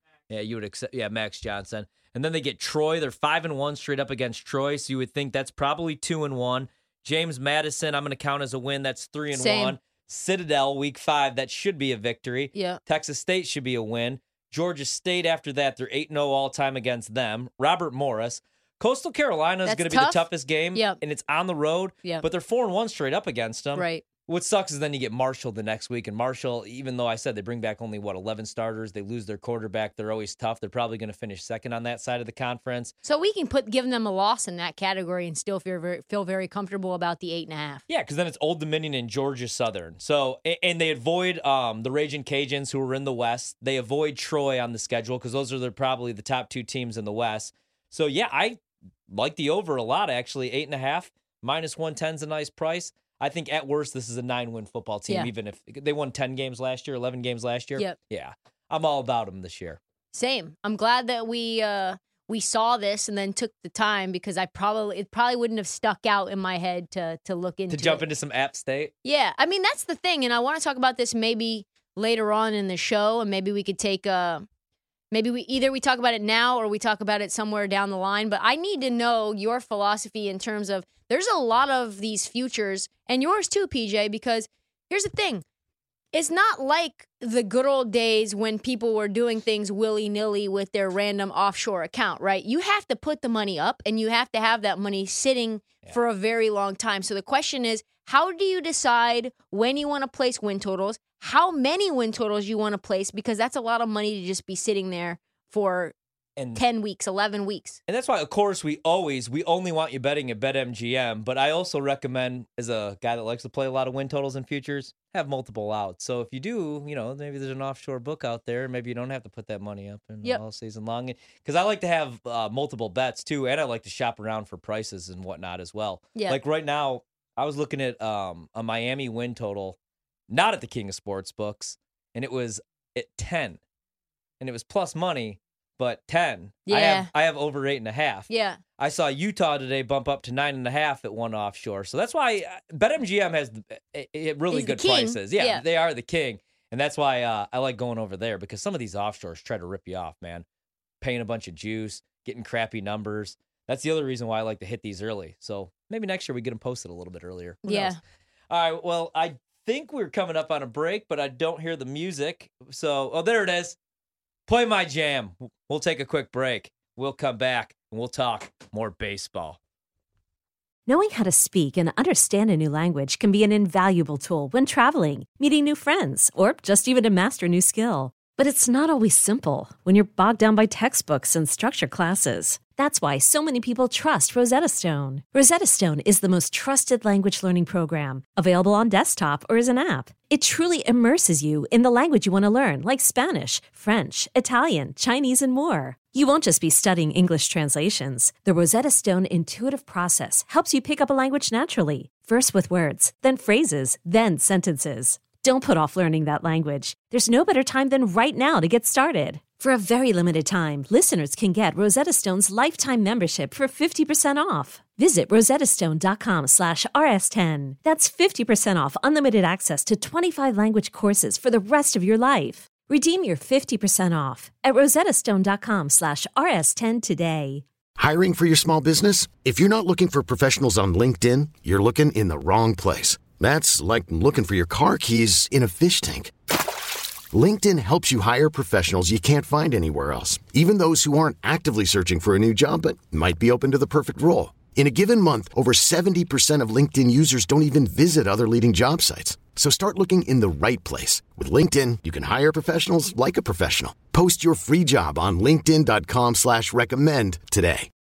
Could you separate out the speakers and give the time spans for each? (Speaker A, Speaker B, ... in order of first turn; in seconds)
Speaker A: 0.3-32.9, 37.9-59.8, 67.7-68.9, 106.4-106.6, 107.9-129.8, 130.3-133.6, 134.4-150.4, 151.0-158.0, 158.5-163.8, 164.5-169.6
Speaker B: 9.3-9.8, 12.5-12.8, 19.6-21.0, 23.7-24.0, 33.0-37.8, 60.1-68.0, 69.0-74.5, 75.1-85.4, 86.1-105.9, 106.5-107.8, 136.7-137.1, 138.3-138.6, 144.5-145.6, 157.6-158.0
Speaker C: 170.9-227.6
Speaker D: 228.0-236.3, 237.3-257.9